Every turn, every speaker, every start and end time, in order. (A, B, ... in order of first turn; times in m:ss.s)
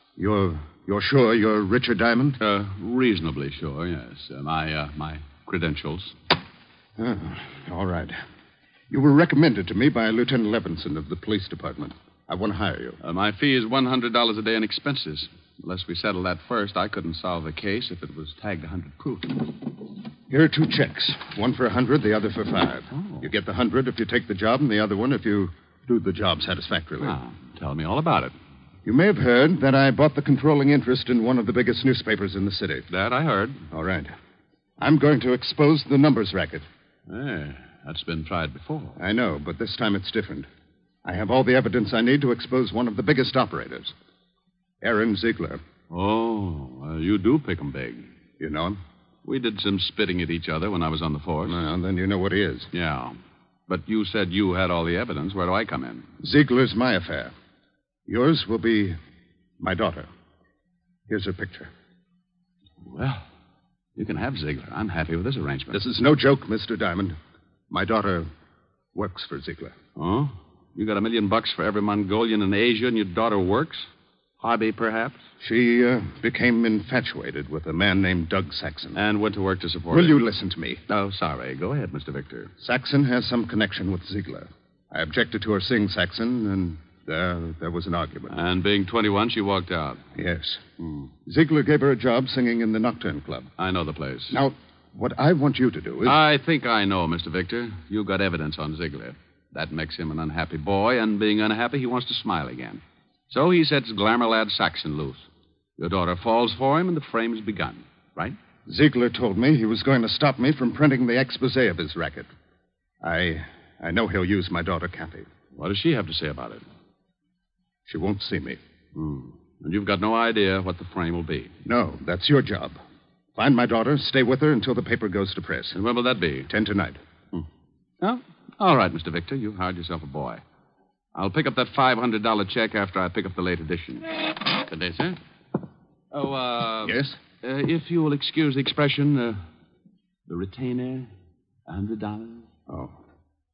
0:00.2-0:02.4 A
0:02.4-0:06.1 B
0:07.0-0:08.2 A
0:08.9-0:13.0 A
0:13.0-0:19.5 B
0:20.3-0:27.2 A
0:22.9-0:23.3 B
0:27.0-0:28.3 B
0:28.8-0:32.8 A
0:32.9-0:33.6 B
0:33.7-0:34.1 A
0:34.8-0:36.6 A
0:37.1-0:39.0 B
0:39.0-0:40.5 A
0:41.0-0:43.9 A
0:44.8-0:45.6 A
0:45.9-0:48.1 B
0:48.4-0:48.8 A
0:49.2-0:51.6 B
0:51.4-0:52.7 A
0:52.7-0:53.2 B
0:53.7-0:56.1 B
0:56.2-0:57.3 A
0:58.0-0:59.0 A
0:59.6-1:00.1 A
1:01.1-1:01.7 A
1:02.8-1:03.2 B
1:04.0-1:05.8 B
1:05.7-1:07.2 A
1:07.7-1:08.3 A
1:08.9-1:09.7 A
1:10.0-1:13.9 B
1:14.4-1:15.2 B
1:15.4-1:19.0 A
1:18.9-1:20.2 B
1:19.9-1:20.8 A
1:20.9-1:22.5 B
1:22.6-1:28.4 A
1:28.3-1:30.1 B
1:30.1-1:30.6 A
1:30.8-1:31.1 B
1:31.2-1:33.5 A
1:33.6-1:34.4 B
1:34.3-1:36.2 A
1:36.0-1:45.3 B
1:45.8-1:48.4 B
1:48.6-1:52.3 A
1:53.0-1:55.3 A
1:55.5-1:56.6 B
1:57.9-1:58.6 A
1:58.9-2:01.5 B
2:01.6-2:02.8 A
2:03.4-2:05.8 A
2:05.7-2:06.5 B
2:06.5-2:07.0 A
2:08.0-2:10.4 B
2:11.1-2:14.1 B
2:14.6-2:15.2 B
2:16.1-2:19.4 B
2:16.8-2:17.2 A
2:20.3-2:21.1 B
2:21.7-2:22.5 B
2:22.7-2:22.9 A